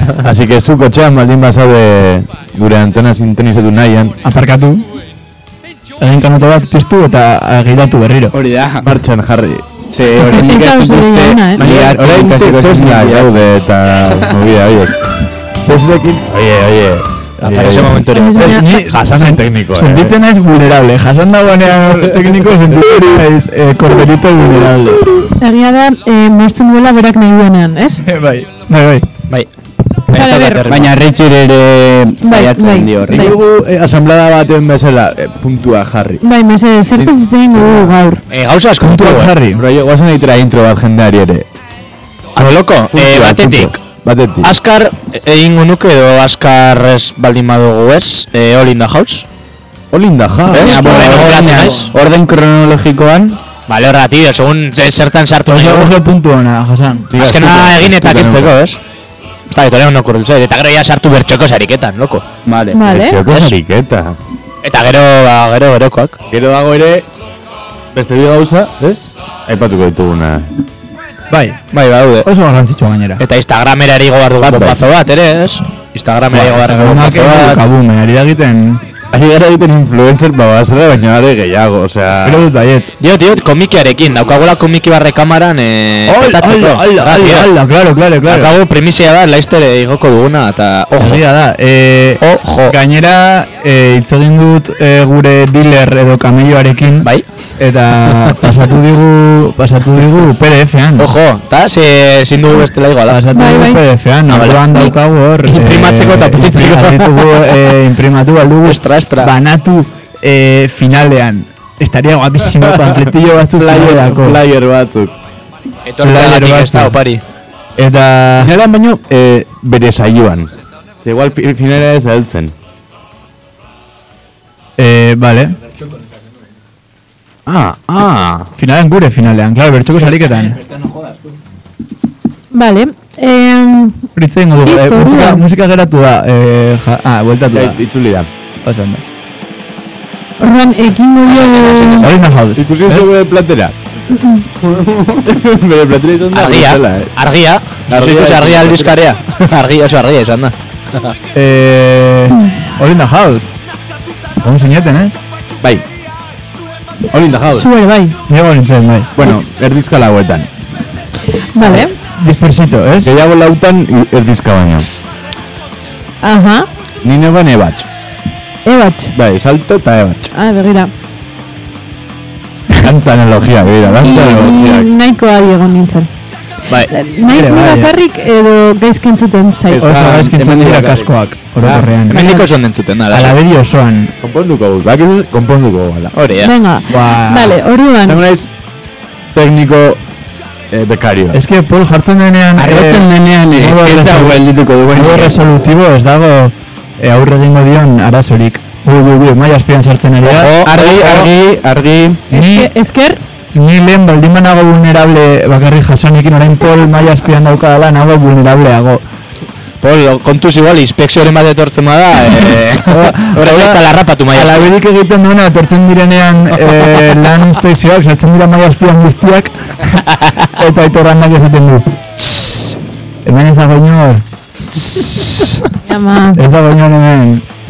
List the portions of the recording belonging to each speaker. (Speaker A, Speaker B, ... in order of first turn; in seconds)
Speaker A: 0.2-4.2, 8.6-9.7, 11.6-15.0, 15.7-18.4, 18.9-20.1, 33.1-36.2, 37.0-37.9, 39.6-41.5, 42.4-44.5, 49.9-51.5, 57.1-58.5, 62.5-64.2, 66.3-67.1, 67.9-70.5, 74.4-74.8, 79.1-82.5, 112.7-113.0, 113.5-115.1, 118.4-120.5, 121.0-122.5, 127.5-128.5, 137.5-138.3, 142.6-143.7, 144.6-147.1, 147.9-149.0, 157.1-157.7, 159.2-160.5, 163.0-164.9, 167.0-167.9, 169.1-170.3, 172.8-174.9, 179.7-182.0, 184.2-186.1, 188.1-188.5, 189.3-190.0, 190.7-191.4
Speaker B: 4.2-4.8, 6.0-8.3, 18.4-25.0, 28.1-29.1, 38.8-39.6, 50.8-51.9, 55.5-57.1, 71.3-71.6, 72.2-73.2, 76.3-78.8, 82.2-82.9, 86.1-88.5, 91.0-101.1, 103.1-114.4, 116.0-117.0, 117.8-118.5, 124.8-125.5, 128.6-130.6, 134.2-137.8, 138.6-139.0, 142.0-143.1, 151.3-153.5, 154.4-155.2, 158.3-159.1, 161.7-163.2, 177.2-177.9, 179.8-182.4, 183.1-184.1, 186.9-187.5, 191.3-200.7, 202.3-202.7, 203.5-209.0, 212.9-213.8, 214.3-222.7, 223.2-224.2, 224.8-225.6, 226.3-227.4
Speaker C: 9.9-13.5, 30.7-33.3, 50.5-53.4, 192.6-195.4, 200.2-202.2
Speaker D: 10.2-11.6, 18.1-18.6, 25.4-28.0, 30.1-30.6, 32.2-33.3, 36.2-38.2, 62.7-63.2, 103.3-103.8, 132.5-134.0, 134.7-135.4, 140.4-142.1, 157.5-158.2, 161.6-161.9, 166.2-166.7, 168.7-169.1, 170.3-170.9, 174.0-176.1, 176.9-179.8, 186.4-188.2, 202.3-203.2, 225.9-226.4
Speaker E: 17.4-19.3, 30.1-30.9, 38.3-39.3, 42.4-43.9, 44.4-49.2, 50.5-51.9, 53.7-55.9, 57.2-58.8, 59.5-62.3, 63.3-63.5, 64.6-66.2, 71.7-72.3, 73.2-77.6, 83.0-87.5, 88.3-91.2, 92.2-92.8, 101.0-103.2, 104.3-107.5, 108.6-109.3, 115.9-117.2, 141.2-142.2, 146.3-150.5, 182.1-183.4, 186.2-186.5, 200.6-201.3, 209.8-214.7